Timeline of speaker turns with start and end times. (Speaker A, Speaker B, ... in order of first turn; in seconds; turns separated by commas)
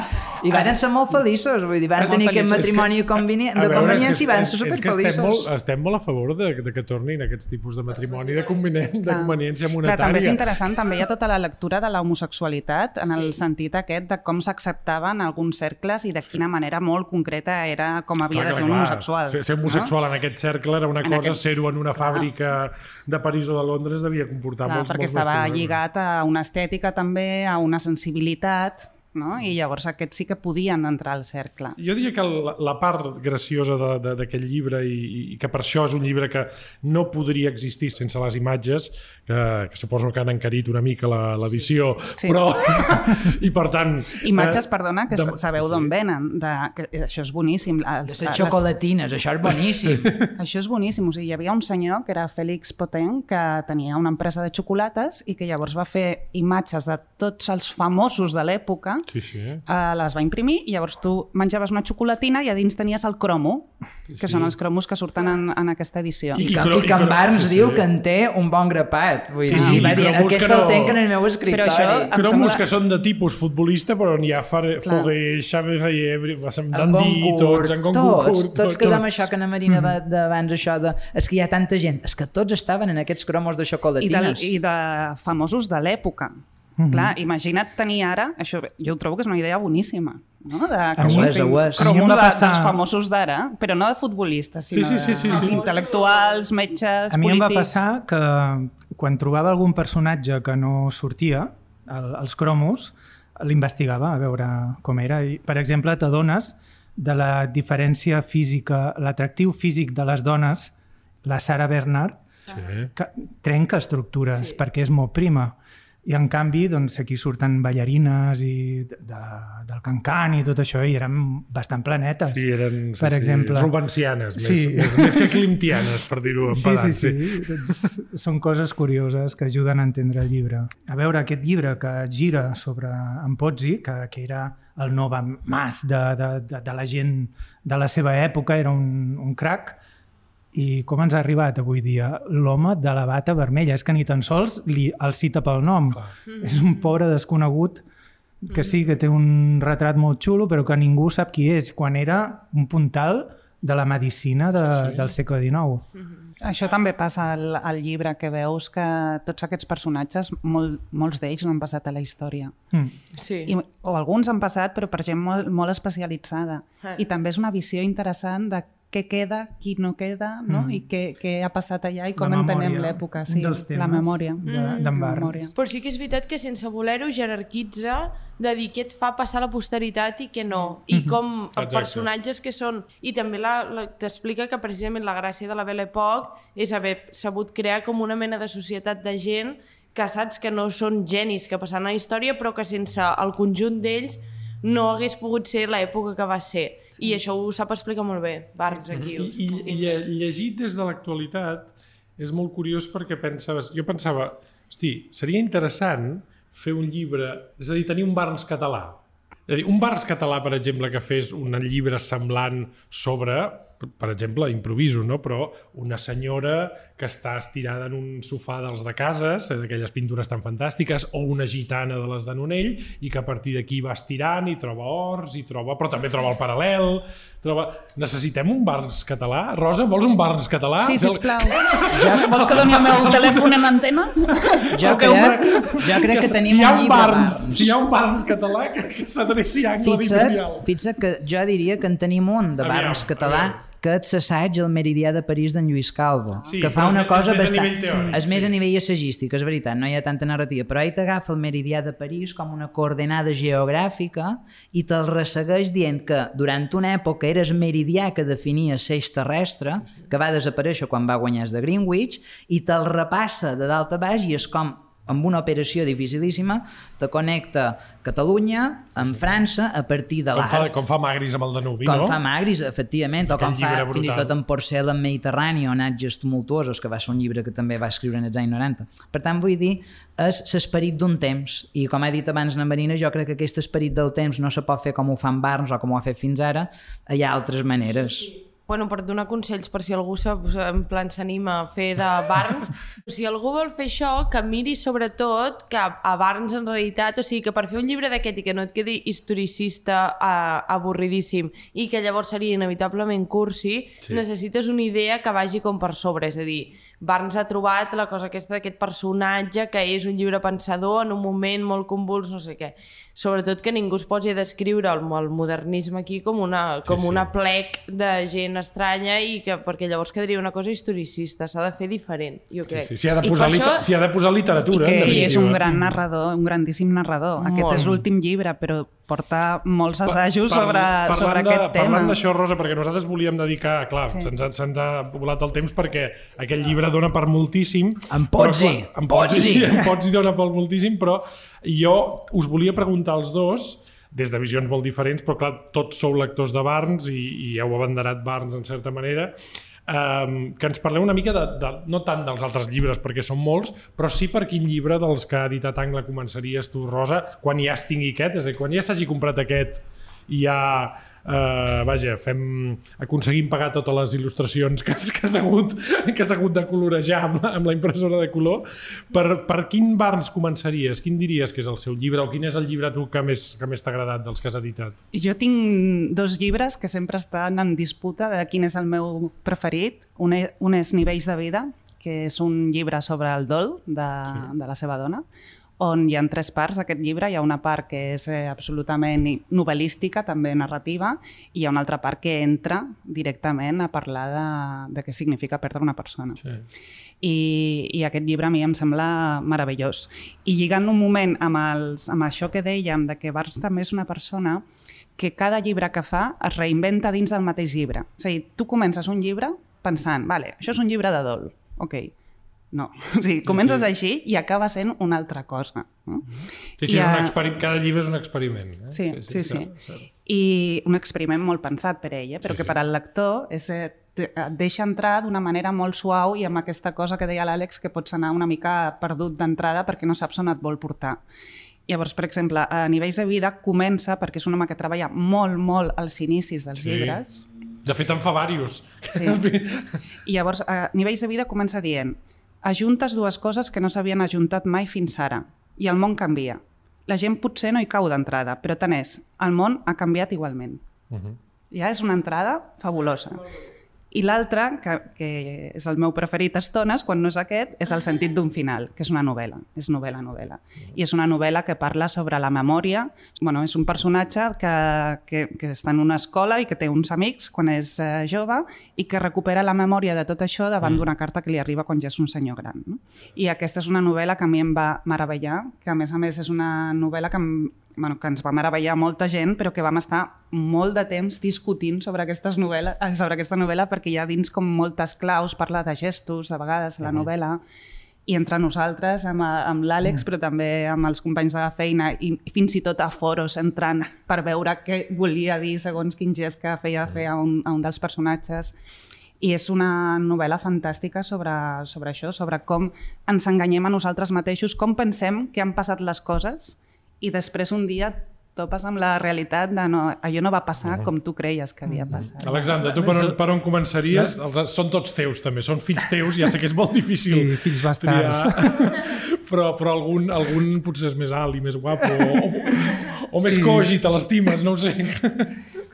Speaker A: 0.4-5.5, Speaker B: 2.0-2.9, Speaker B: 3.5-10.5, Speaker C: 9.1-19.9, Speaker B: 18.3-25.8, Speaker C: 21.0-21.4, Speaker C: 22.0-22.3, Speaker C: 24.6-31.8, Speaker B: 31.8-45.9, Speaker C: 44.2-48.6, Speaker A: 48.0-50.1, Speaker B: 49.9-50.3, Speaker C: 50.4-59.0, Speaker B: 59.1-59.6, Speaker C: 59.6-66.5, Speaker B: 64.1-64.5, Speaker B: 66.3-67.9, Speaker A: 66.4-72.1, Speaker B: 69.4-71.0, Speaker C: 69.5-70.0, Speaker C: 71.5-72.6, Speaker B: 72.1-79.3, Speaker C: 74.8-75.1, Speaker A: 76.7-84.5, Speaker D: 79.7-79.9, Speaker C: 84.0-97.8, Speaker D: 86.8-87.1, Speaker A: 91.0-92.0, Speaker D: 91.7-92.8, Speaker B: 94.7-95.6, Speaker E: 95.0-96.6, Speaker D: 97.1-110.7, Speaker D: 111.2-112.2, Speaker B: 112.5-112.9, Speaker D: 112.9-122.5, Speaker B: 122.3-127.7, Speaker D: 123.0-123.8, Speaker D: 124.4-125.5, Speaker D: 126.5-139.8, Speaker D: 140.5-147.8, Speaker E: 146.3-146.7, Speaker D: 148.4-155.8, Speaker B: 154.6-155.0, Speaker C: 156.4-162.6, Speaker E: 163.2-163.5, Speaker C: 163.4-175.5, Speaker D: 170.5-170.8, Speaker D: 172.2-175.5, Speaker E: 174.4-174.9, Speaker E: 175.5-199.7, Speaker D: 180.9-181.2, Speaker B: 181.6-182.1, Speaker B: 198.9-233.7, Speaker C: 230.8-234.8, Speaker A: 231.9-233.1, Speaker B: 234.3-240.7, Speaker A: 234.7-237.8, Speaker A: 239.8-270.8, Speaker B: 242.6-243.6, Speaker B: 246.5-248.5, Speaker B: 270.3-272.2, Speaker A: 271.8-288.3, Speaker B: 273.2-274.4, Speaker E: 288.7-323.9, Speaker B: 316.9-317.3, Speaker B: 322.7-326.0, Speaker C: 324.7-332.2, Speaker E: 324.9-325.4, Speaker E: 327.4-328.0, Speaker B: 330.1-349.3, Speaker A: 338.1-339.9, Speaker B: 349.9-375.0, Speaker C: 375.1-385.2, Speaker C: 385.8-396.4, Speaker C: 397.2-404.6, Speaker C: 405.2-412.1, Speaker C: 412.7-417.4, Speaker B: 413.4-413.9, Speaker B: 416.8-420.0, Speaker C: 418.9-431.2, Speaker B: 422.4-422.8, Speaker C: 431.9-437.4, Speaker B: 436.8-437.2, Speaker B: 437.8-440.0, Speaker C: 439.1-439.4, Speaker C: 440.2-450.8, Speaker B: 451.1-451.4, Speaker C: 451.7-453.5, Speaker C: 454.1-487.6, Speaker B: 470.8-471.1, Speaker B: 487.0-487.3, Speaker C: 488.3-498.8, Speaker C: 499.4-512.8, Speaker B: 510.8-511.1, Speaker D: 511.9-513.4, Speaker B: 512.1-525.5, Speaker D: 514.1-514.4, Speaker D: 517.2-518.9, Speaker D: 522.2-523.9